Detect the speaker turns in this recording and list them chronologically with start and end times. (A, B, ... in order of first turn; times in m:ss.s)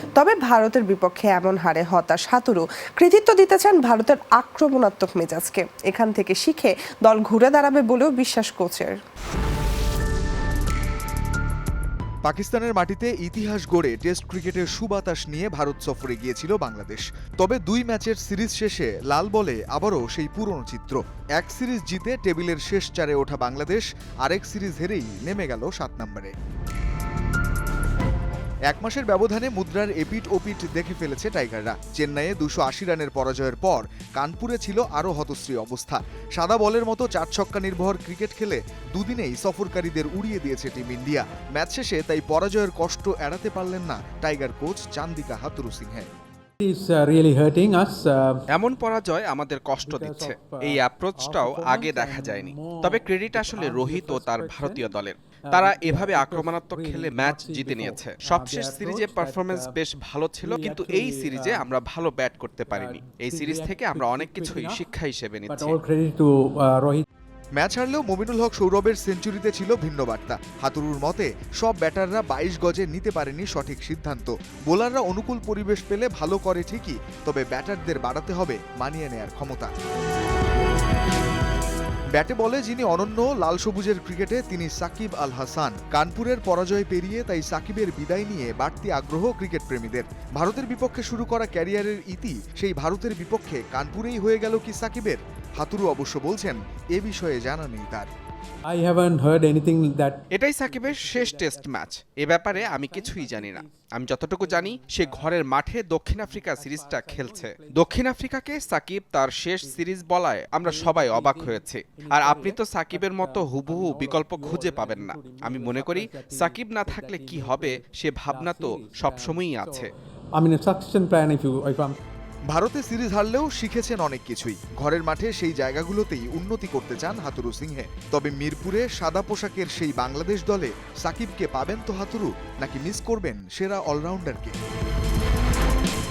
0:00.1-0:09.0 A
0:12.2-0:26.3 B
0:28.7-0:46.1 B
0:46.6-0:48.4 C
0:48.5-1:05.8 D
0:49.8-0:54.9 C
0:55.5-0:59.8 C
1:00.4-1:01.7 C
1:02.7-1:04.9 C
1:05.5-1:07.0 C
1:07.6-1:19.7 B
1:22.2-1:38.1 B
1:38.7-1:45.4 C
1:40.3-1:59.9 D
1:46.3-1:48.2 C
1:50.6-2:02.0 C
2:02.5-2:14.6 B